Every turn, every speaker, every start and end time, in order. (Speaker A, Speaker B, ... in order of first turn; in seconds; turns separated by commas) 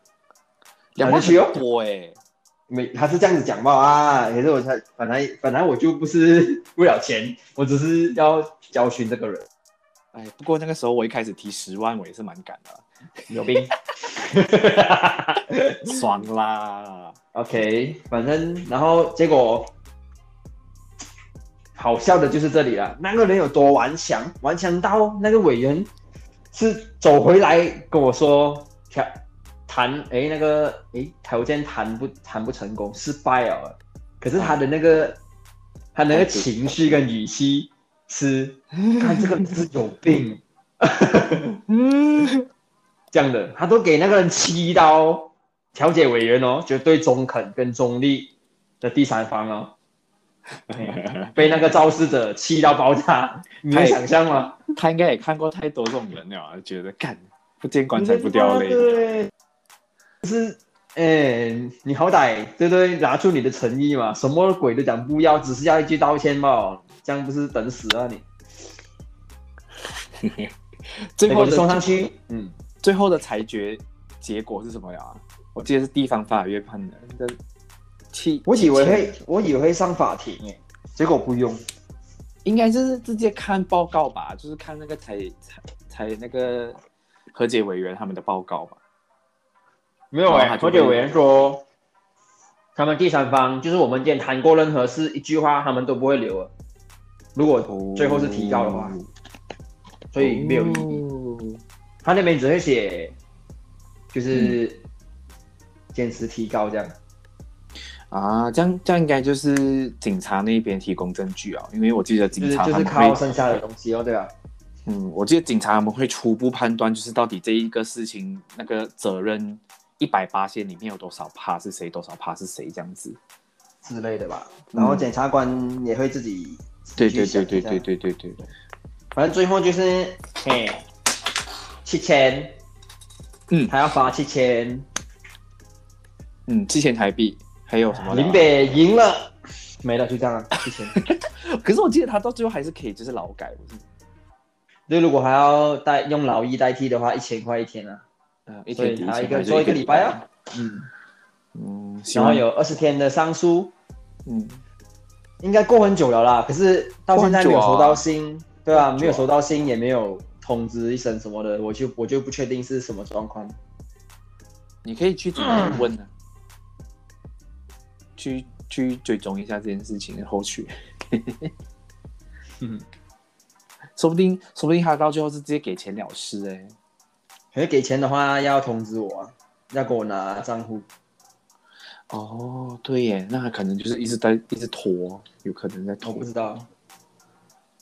Speaker A: 0.9-2.2, Speaker B: 1.0-1.6, Speaker B: 2.7-9.5, Speaker A: 10.1-12.8, Speaker B: 13.3-15.9, Speaker A: 15.8-17.1, Speaker B: 17.3-19.7, Speaker B: 21.8-25.9, Speaker B: 26.5-35.2, Speaker A: 34.4-34.6, Speaker B: 35.9-41.6, Speaker A: 36.1-36.5, Speaker A: 41.7-42.4, Speaker B: 43.1-49.7, Speaker A: 50.7-51.4, Speaker B: 50.7-54.6, Speaker A: 53.7-54.0, Speaker A: 54.7-59.0, Speaker B: 57.9-59.3, Speaker B: 60.2-68.2, Speaker A: 70.1-71.9, Speaker B: 71.3-72.5, Speaker A: 72.8-77.4, Speaker A: 78.1-79.2, Speaker B: 78.5-81.6, Speaker A: 82.4-86.8, Speaker A: 87.3-88.8, Speaker B: 90.1-91.6, Speaker A: 90.3-91.1, Speaker B: 92.8-96.5, Speaker B: 97.3-99.0, Speaker A: 97.7-99.1, Speaker B: 100.1-101.0, Speaker A: 100.2-101.6, Speaker B: 102.0-103.2, Speaker B: 104.1-104.8, Speaker A: 104.3-104.6, Speaker B: 105.9-106.9, Speaker A: 108.1-113.2, Speaker B: 112.4-114.3, Speaker A: 114.8-123.2, Speaker B: 123.8-127.8, Speaker A: 124.7-125.1, Speaker A: 127.0-128.5, Speaker B: 129.1-130.8, Speaker B: 131.8-132.6, Speaker B: 133.7-134.9, Speaker A: 136.5-138.5, Speaker B: 138.1-141.0, Speaker A: 140.9-143.8, Speaker B: 144.9-148.0, Speaker A: 148.5-150.2, Speaker B: 148.7-150.9, Speaker A: 151.5-152.4, Speaker B: 152.1-153.7, Speaker A: 154.2-154.6, Speaker B: 155.4-163.6, Speaker A: 157.1-158.0, Speaker A: 158.7-159.3, Speaker A: 164.8-166.1, Speaker A: 168.2-171.5, Speaker A: 173.9-176.7, Speaker B: 177.5-180.9, Speaker A: 182.1-186.3, Speaker B: 186.0-186.7